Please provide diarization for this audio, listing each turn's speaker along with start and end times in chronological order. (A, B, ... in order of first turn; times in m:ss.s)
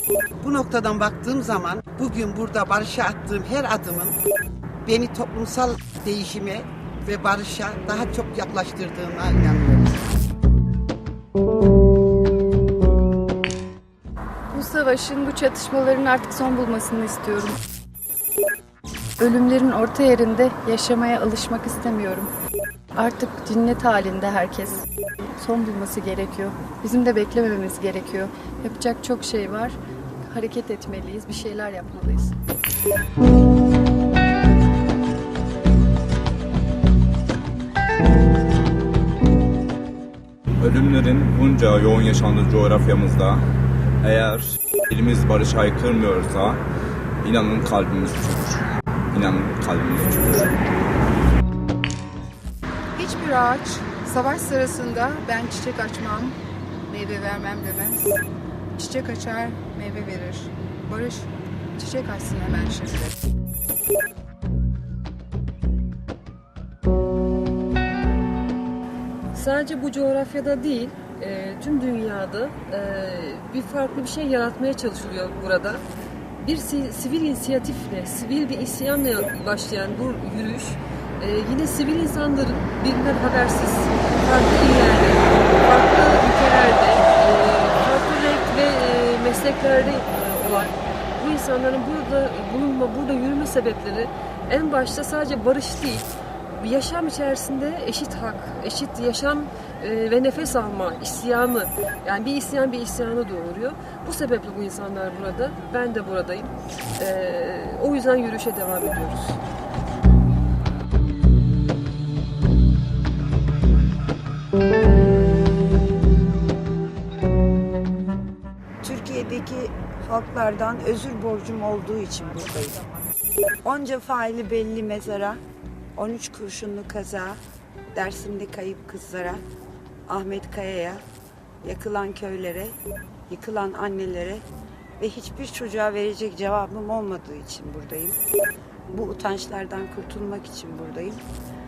0:00.4-0:04.2 A
0:04.9-0:10.0 A
0:14.5-0:17.6 B
0:19.2-0:22.3 B
0:23.0-0:24.8 B
0:25.4-0:32.3 B
0:40.6-0:43.4 C
0:44.0-0:46.6 C
0:47.2-0:50.5 C
0:53.0-0:56.4 D
0:56.9-0:58.2 D
0:58.8-1:03.2 D
1:09.3-1:15.8 E
1:16.4-1:49.4 E
1:58.8-2:02.9 F
2:03.6-2:05.4 F
2:06.0-2:07.4 F
2:07.9-2:09.4 F
2:10.1-2:11.0 F
2:11.6-2:12.8 F
2:13.3-2:14.4 F
2:15.0-2:18.2 F
2:18.9-2:21.2 F